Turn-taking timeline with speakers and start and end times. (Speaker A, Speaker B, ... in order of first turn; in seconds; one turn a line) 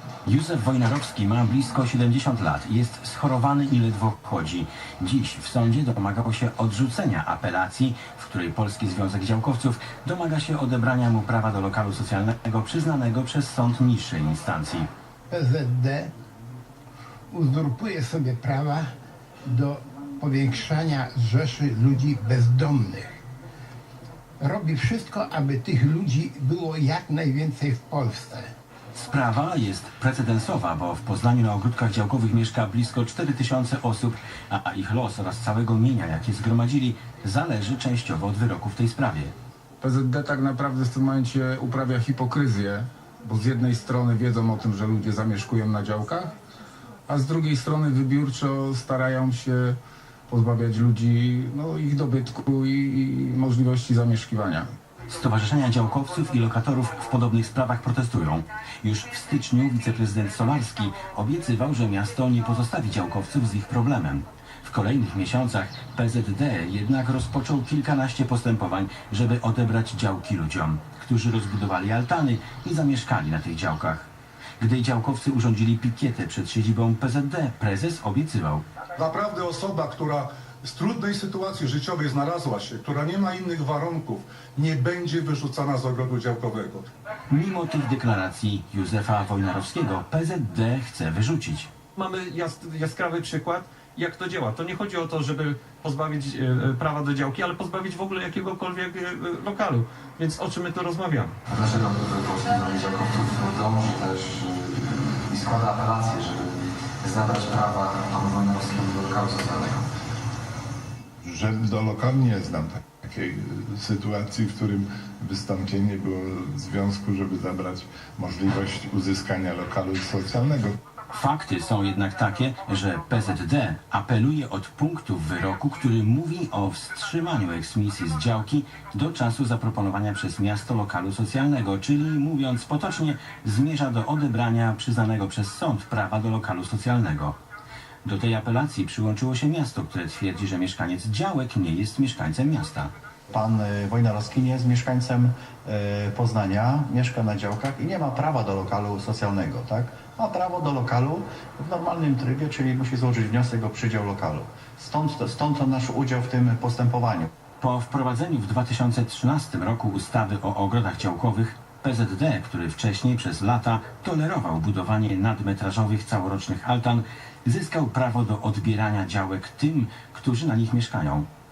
Speaker A: 0.2-14.9
Speaker B: 15.3-16.1
Speaker B: 17.3-18.9
Speaker B: 19.4-23.2
Speaker B: 24.4-28.5
Speaker A: 28.9-39.3
Speaker C: 39.8-46.3
Speaker C: 47.1-49.8
Speaker C: 50.3-54.6
Speaker A: 55.1-74.1
Speaker A: 74.6-78.6
Speaker D: 79.0-86.8
Speaker A: 87.3-91.7
Speaker E: 91.9-101.4
Speaker F: 101.5-109.8
Speaker G: 111.2-120.7
Speaker A: 121.1-137.3
Speaker A: 138.0-142.9
Speaker H: 143.3-157.3
Speaker A: 157.6-171.3